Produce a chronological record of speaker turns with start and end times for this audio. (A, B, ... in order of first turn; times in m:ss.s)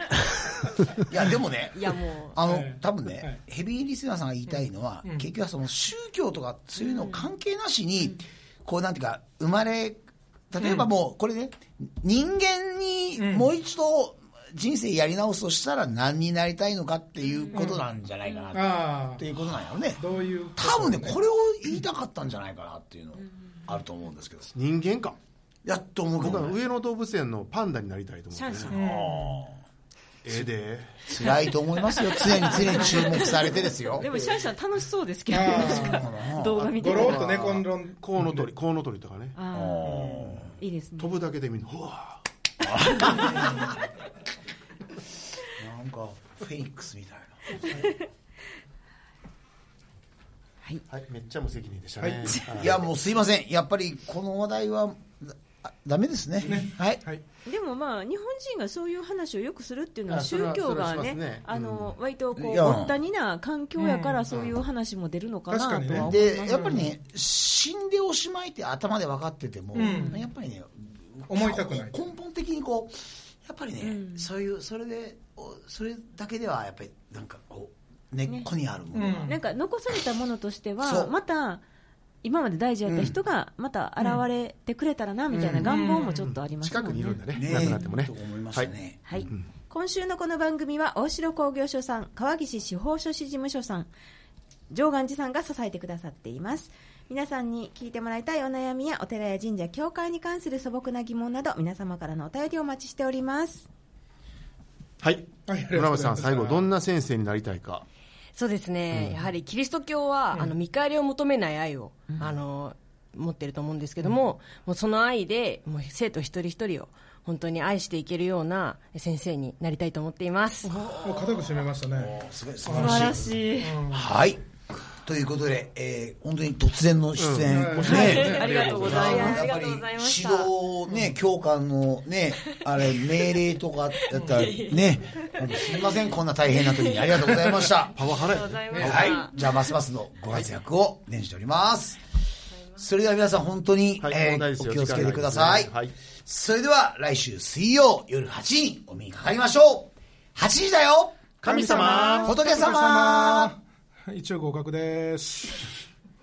0:01.0-0:20.0 A
0:01.7-0:02.4 B
0:02.4-0:03.4 C
0:04.5-0:05.3 C
0:06.8-0:07.3 D
0:10.6-0:10.9 C
0:13.2-0:13.5 C
0:17.5-0:17.8 C
0:18.5-0:19.3 C
0:20.0-0:21.2 C
0:20.6-0:24.5 A
0:24.5-0:25.2 E
0:25.6-0:26.6 A
0:26.2-0:28.7 E
0:28.4-0:28.7 B
0:28.7-0:29.6 A
0:28.7-0:29.4 C
0:30.2-0:31.1 E
0:31.0-0:34.1 A
0:32.1-0:33.2 D
0:33.9-0:37.2 D
0:35.3-0:36.1 C
0:35.7-0:36.7 A
0:36.6-0:39.4 E
0:36.6-0:38.5 C
0:39.3-0:40.0 D
0:39.5-0:40.5 A
0:39.8-0:40.4 C
0:40.6-0:41.1 D
0:41.0-0:42.2 E
0:42.6-0:43.6 A
0:45.5-0:47.8 A
0:47.6-0:47.9 C
0:50.9-0:52.9 E
0:52.0-0:52.4 C
0:52.5-0:57.0 A
0:56.4-0:57.2 C
0:57.4-1:06.9 D
1:00.1-1:01.8 E
1:02.4-1:03.0 A
1:03.8-1:04.3 C
1:05.5-1:06.9 C
1:05.9-1:19.4 A
1:09.7-1:10.2 D
1:09.8-1:10.2 C
1:11.3-1:12.0 C
1:13.8-1:14.3 D
1:18.9-1:19.4 C
1:19.2-1:21.6 D
1:20.8-1:21.1 A
1:22.2-1:27.9 D
1:22.8-1:23.2 A
1:25.3-1:25.7 A
1:25.6-1:26.4 C
1:26.6-1:28.7 E
1:27.3-1:29.3 A
1:29.0-1:33.9 D
1:34.7-1:43.7 D
1:45.0-1:47.8 E
1:45.4-1:46.7 C
1:48.3-2:01.4 B
2:00.6-2:04.1 C
2:01.9-2:04.4 A
2:02.7-2:03.8 D
2:05.0-2:18.0 A
2:07.2-2:09.4 E
2:07.4-2:08.7 C
2:07.8-2:10.5 B
2:08.4-2:09.1 D
2:12.5-2:13.2 B
2:14.0-2:16.0 B
2:14.1-2:14.5 C
2:16.6-2:17.4 B
2:18.0-2:19.1 E
2:18.0-2:19.5 B
2:18.7-2:19.1 C
2:18.8-2:22.0 A
2:22.8-2:31.3 A
2:24.0-2:25.9 E
2:31.4-2:32.3 E
2:31.4-2:35.6 C
2:31.7-2:32.3 D
2:32.0-2:33.5 A